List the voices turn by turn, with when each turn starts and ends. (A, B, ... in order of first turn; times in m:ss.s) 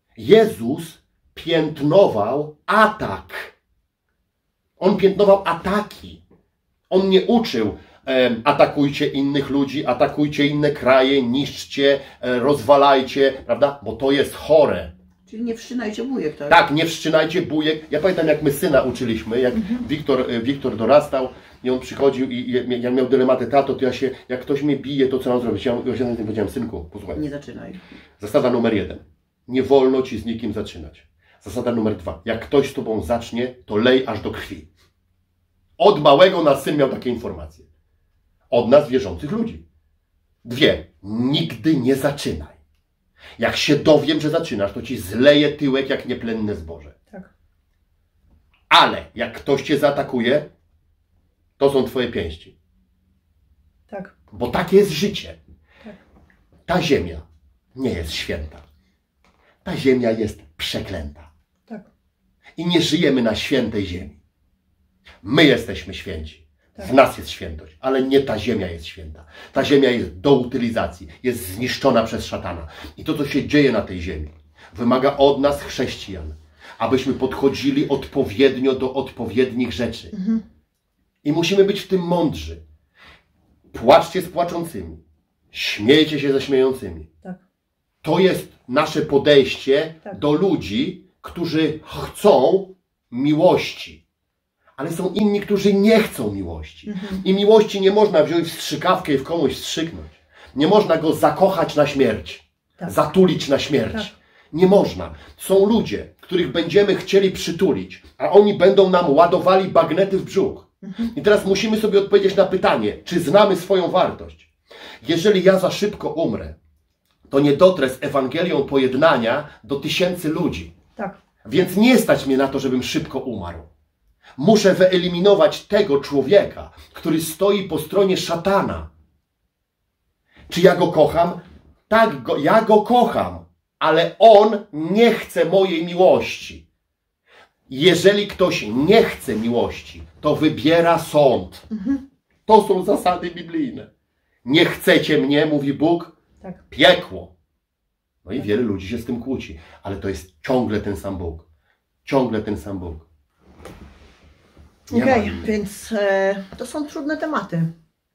0:00.2-0:03.5 A
0:04.8-0:06.2 A
0:06.9-0:14.9 A
0:15.3-0:16.6 B
0:16.5-0:27.2 A
0:19.5-0:19.8 C
0:27.2-0:27.8 B
0:28.2-0:34.7 A
0:35.8-0:37.7 A
0:38.5-0:39.6 A
0:40.4-0:42.6 A
0:43.4-0:47.0 A
0:48.7-0:50.5 A
0:51.6-0:52.5 A
0:54.3-0:55.4 A
0:56.7-0:57.2 A
0:57.8-0:58.6 A
0:59.6-1:01.3 A
1:02.6-1:04.2 A
1:05.2-1:20.1 A
1:20.1-1:20.4 C
1:21.2-1:22.6 A
1:23.7-1:25.0 A
1:25.5-1:27.1 A
1:28.0-1:34.0 A
1:34.8-1:54.5 A
1:36.9-1:37.2 C
1:50.8-1:51.1 C
1:55.0-1:56.6 A
1:57.3-2:00.7 A
2:01.4-2:03.7 A
2:04.4-2:08.9 A
2:10.5-2:16.6 A
2:17.7-2:21.7 A
2:21.7-2:22.0 C
2:22.5-2:23.9 A
2:24.4-2:26.1 A
2:26.7-2:27.3 A
2:28.2-2:31.4 A
2:32.0-2:33.0 A
2:34.9-2:37.7 C
2:34.9-2:35.5 A